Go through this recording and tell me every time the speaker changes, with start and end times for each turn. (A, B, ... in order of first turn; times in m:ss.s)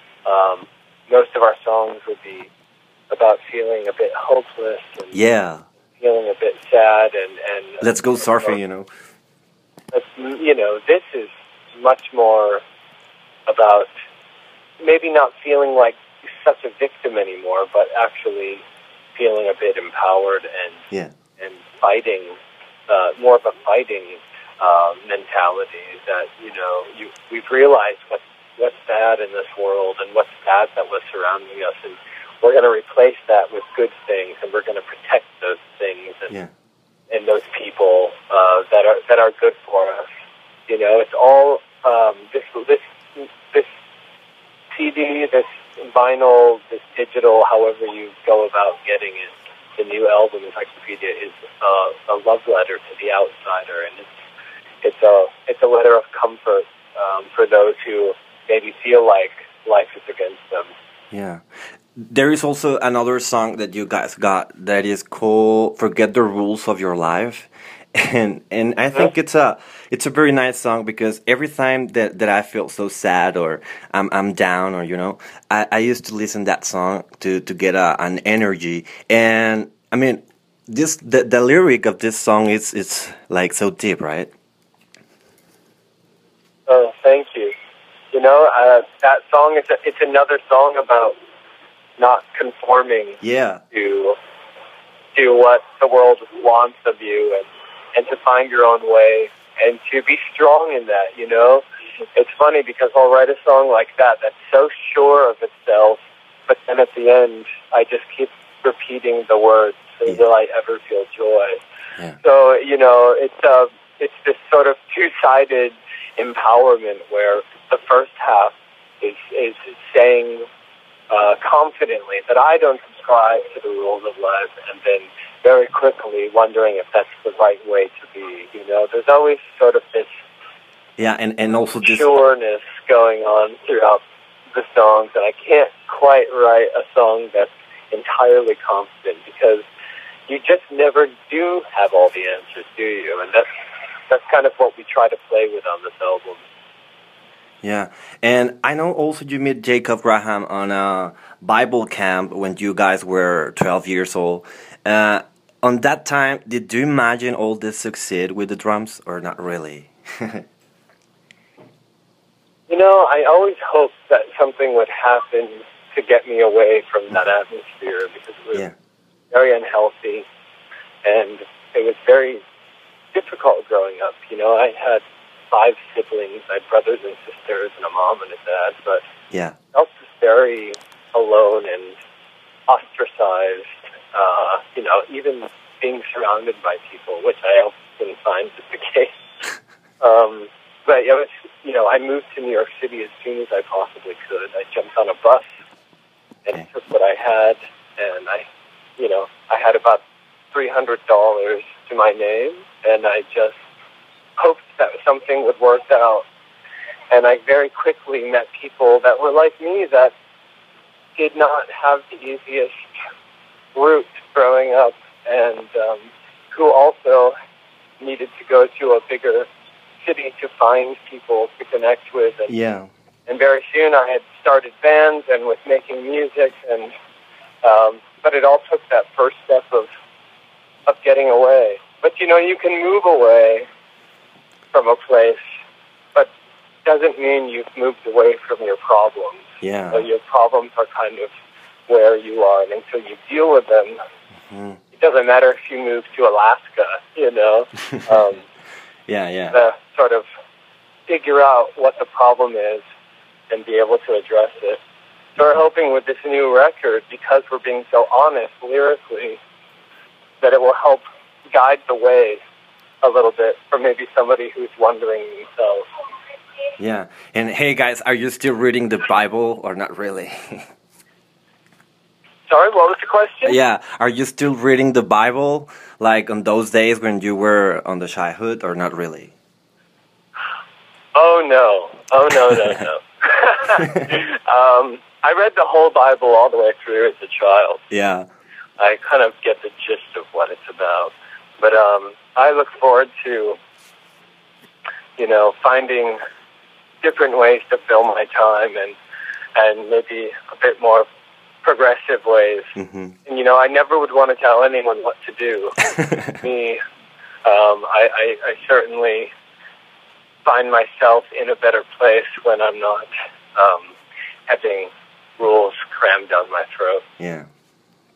0:00.2-0:02.5 A
0:03.1-0:05.2 A
0:05.1-0:05.6 B
0:06.0-0:08.6 A
0:07.8-0:08.9 B
0:09.9-0:12.6 A
0:13.5-0:13.9 A
0:14.8-0:18.6 A
0:19.2-0:20.8 A
0:21.4-0:36.3 A
0:37.1-0:40.1 A
0:40.7-0:43.7 A
0:44.7-0:54.1 A
0:54.8-1:00.7 A
1:01.1-1:01.4 B
1:02.0-1:24.3 B
1:26.7-1:27.5 A
1:28.1-1:31.2 A
1:32.0-1:33.2 A
1:33.2-1:33.6 B
1:33.7-1:34.2 A
1:35.1-1:41.6 A
1:42.2-1:51.6 A
1:52.2-2:00.5 A
2:01.1-2:10.1 A
2:11.0-2:12.1 B
2:11.8-2:14.0 A
2:14.5-2:19.7 A
2:20.3-2:23.5 A
2:24.1-2:26.4 A
2:27.6-2:40.4 B
2:42.7-2:48.7 A
2:49.3-2:50.3 A
2:51.0-2:52.4 A
2:53.1-2:59.0 A
2:59.7-3:02.0 A
3:02.7-3:09.1 A
3:10.0-3:15.5 A
3:16.5-3:18.5 A
3:19.0-3:23.6 A
3:24.4-3:26.2 A
3:27.1-3:30.1 A
3:31.2-3:32.9 A
3:33.8-3:37.3 A
3:38.0-3:39.5 A
3:40.0-3:42.5 A
3:42.5-3:42.9 B
3:43.3-3:46.9 A
3:47.6-3:49.9 A
3:50.9-3:53.7 A
3:54.7-3:55.4 A
3:56.8-4:01.3 A
3:59.6-4:00.1 B
4:01.9-4:04.0 A
4:04.5-4:04.8 B
4:04.9-4:08.4 A
4:09.1-4:09.6 B
4:09.5-4:10.2 A
4:11.1-4:12.8 A
4:13.5-4:14.8 A
4:15.4-4:19.4 A
4:20.4-4:22.4 A
4:23.0-4:25.8 A
4:26.8-4:30.6 B
4:32.5-4:33.6 A
4:33.4-4:39.3 B
4:41.2-4:47.8 A
4:47.9-4:48.3 B
4:48.8-4:53.6 A
4:55.2-4:56.2 A
4:57.0-4:59.0 A
4:59.6-5:01.1 A
5:01.6-5:02.7 A
5:02.8-5:03.2 B
5:03.3-5:06.8 A
5:07.4-5:09.3 A
5:10.4-5:14.0 A
5:14.5-5:17.0 A
5:17.2-5:17.5 B